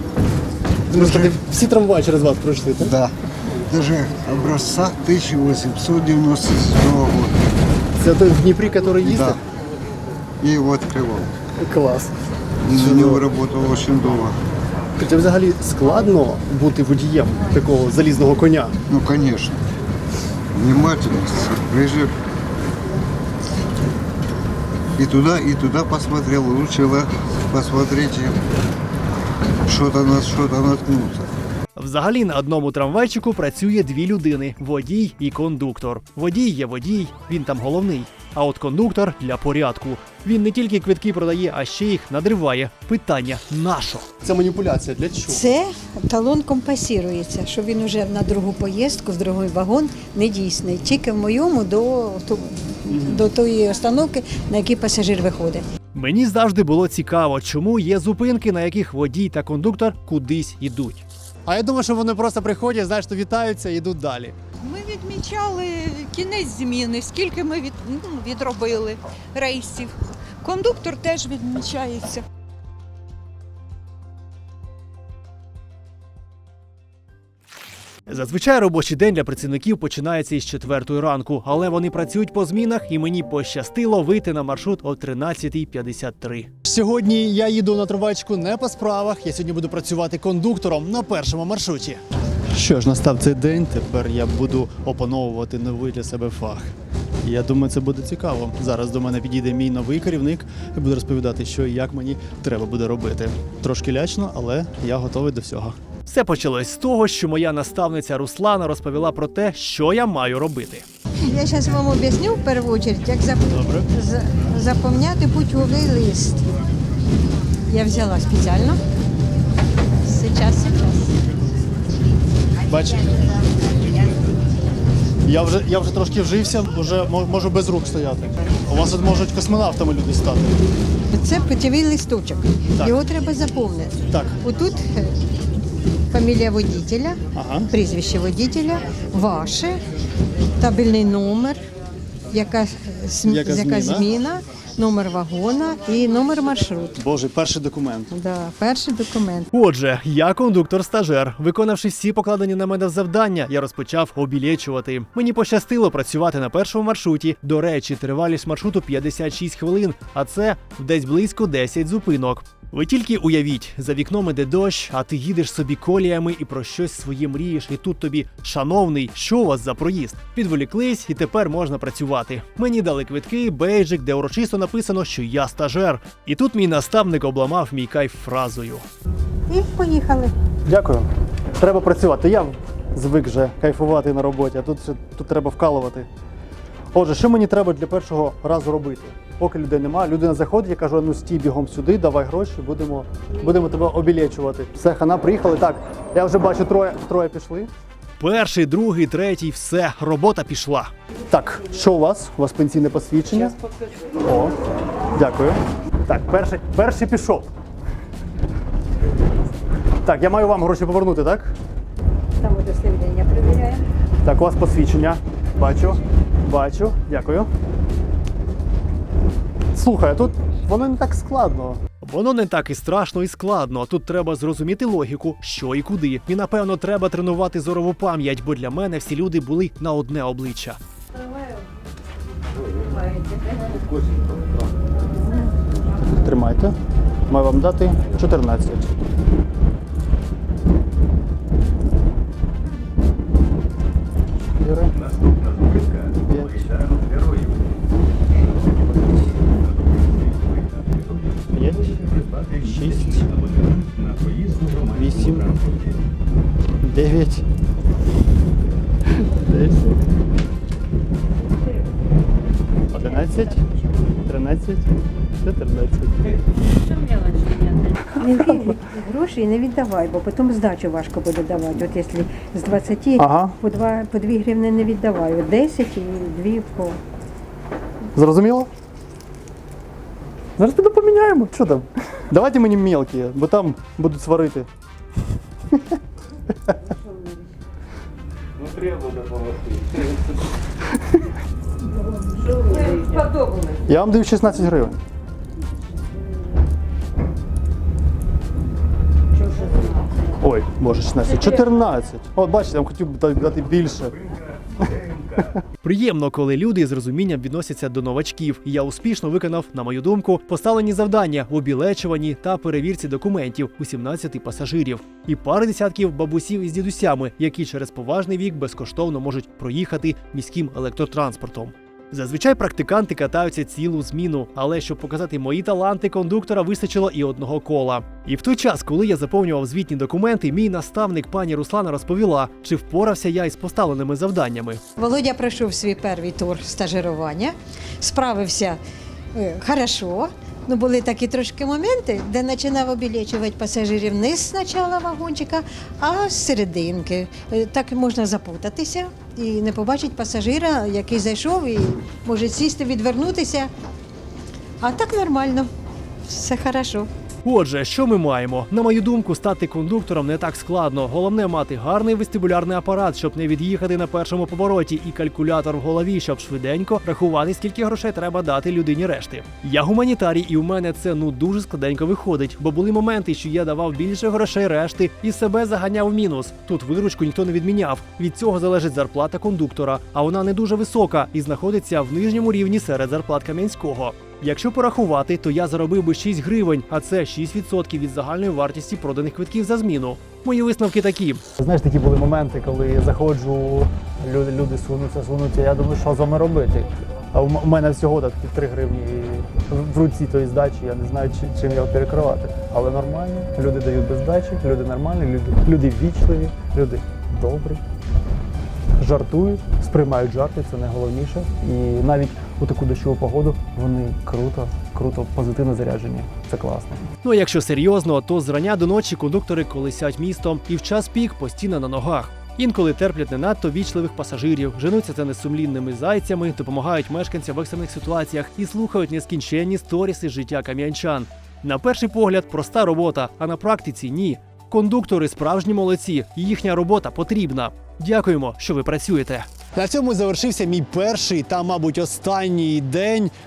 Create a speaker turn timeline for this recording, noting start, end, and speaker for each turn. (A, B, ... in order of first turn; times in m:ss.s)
0:00.9-0:01.3 A
0:00.9-0:02.9 B
0:02.8-0:03.1 A
0:03.7-0:07.4 A
0:08.0-0:09.4 B
0:09.0-0:09.4 A
0:10.4-0:11.3 A
0:11.6-0:12.1 B
0:12.6-0:14.4 A
0:12.7-0:13.3 B
0:15.0-0:18.7 B
0:18.9-0:19.6 A
0:20.5-0:22.1 A
0:25.0-0:28.4 A
0:29.7-0:31.3 A
0:31.8-0:44.1 C
0:44.2-0:45.5 B
0:45.2-0:55.6 D
0:52.9-0:53.2 B
0:55.9-1:04.3 C
1:04.6-1:12.2 E
1:05.1-1:05.5 D
1:07.2-1:07.6 D
1:08.3-1:08.9 D
1:11.1-1:12.0 D
1:18.1-1:32.0 C
1:32.5-1:36.7 B
1:37.2-1:45.7 B
1:46.0-1:50.8 C
1:51.2-1:56.5 D
1:53.6-1:53.8 C
1:57.7-1:58.8 D
2:00.0-2:01.2 D
2:02.7-2:03.2 B
2:05.2-2:10.6 B
2:11.1-2:15.2 D
2:14.1-2:14.4 B
2:16.1-2:19.8 D
2:17.3-2:17.7 B
2:20.6-2:21.6 D
2:22.3-2:27.0 D
2:23.2-2:24.1 B
2:27.0-2:28.1 B
2:28.1-2:29.5 D
2:29.5-2:58.8 C
2:59.5-3:00.3 D
3:00.7-3:01.1 B
3:01.6-3:06.1 B
3:06.9-3:17.7 B
3:18.2-3:20.9 C
3:21.3-3:23.5 B
3:24.2-3:24.6 B
3:25.2-3:27.5 B
3:30.0-3:31.5 B
3:32.4-3:33.8 D
3:34.2-3:37.5 B
3:39.7-3:41.8 B
3:42.0-3:50.8 C
3:56.0-3:56.7 B
3:57.3-3:58.8 B
4:04.6-4:04.9 B
4:06.3-4:06.8 B
4:11.5-4:13.3 B
4:14.9-4:15.5 B
4:16.8-4:17.4 B
4:19.4-4:20.0 B
4:22.9-4:23.6 B
4:24.2-4:26.2 B
4:28.2-4:37.0 D
4:33.2-4:33.6 B
4:38.2-4:38.7 B
4:40.6-4:44.7 B
4:52.6-4:53.7 D
4:53.8-4:55.0 B
5:00.4-5:04.2 B
5:05.8-5:34.8 C
5:35.0-5:38.8 D
5:39.3-5:53.7 D
5:54.8-5:55.7 D
5:56.3-5:57.1 D
5:57.4-6:31.4 C
6:31.6-6:47.8 B
6:49.0-6:57.0 B
6:57.2-7:23.3 C